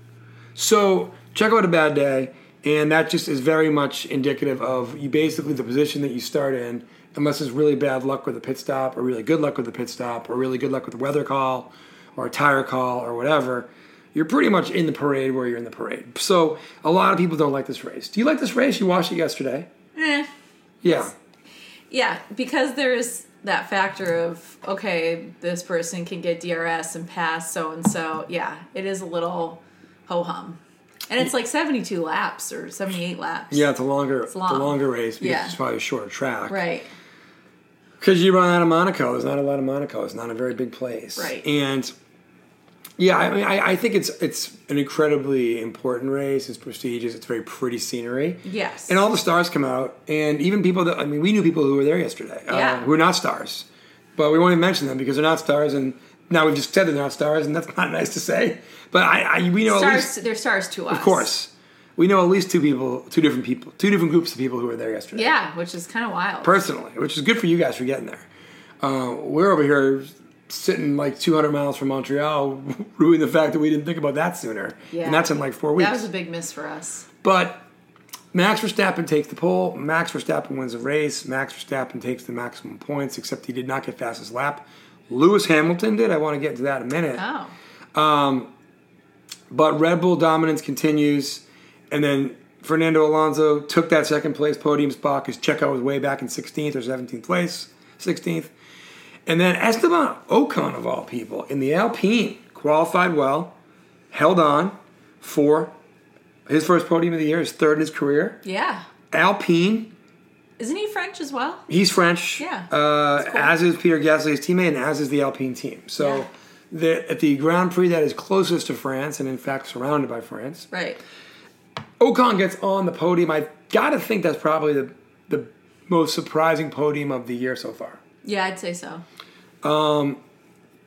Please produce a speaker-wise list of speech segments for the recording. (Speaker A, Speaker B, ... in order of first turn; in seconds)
Speaker A: 0.5-19.7, 20.8-21.1, 33.5-36.6, 38.0-41.9, 43.0-60.1, 60.9-65.3, 66.4-68.3, 68.8-76.0, 77.2-77.6, 78.3-87.2, 87.9-88.5, 89.5-98.5, 99.3-103.5, 104.1-105.7, 106.5-108.4, 109.1-109.9, 111.7-120.7, 122.0-128.0, 129.6-130.2
Speaker B: 19.9-20.3, 21.9-33.7, 34.3-35.5, 36.5-36.9, 41.2-41.5, 48.4-49.0, 52.5-52.9, 59.6-61.3, 65.1-66.6, 74.9-77.1, 87.1-87.5, 108.4-108.8, 110.6-111.7, 112.4-113.5, 116.0-116.2, 120.7-121.0, 128.2-129.0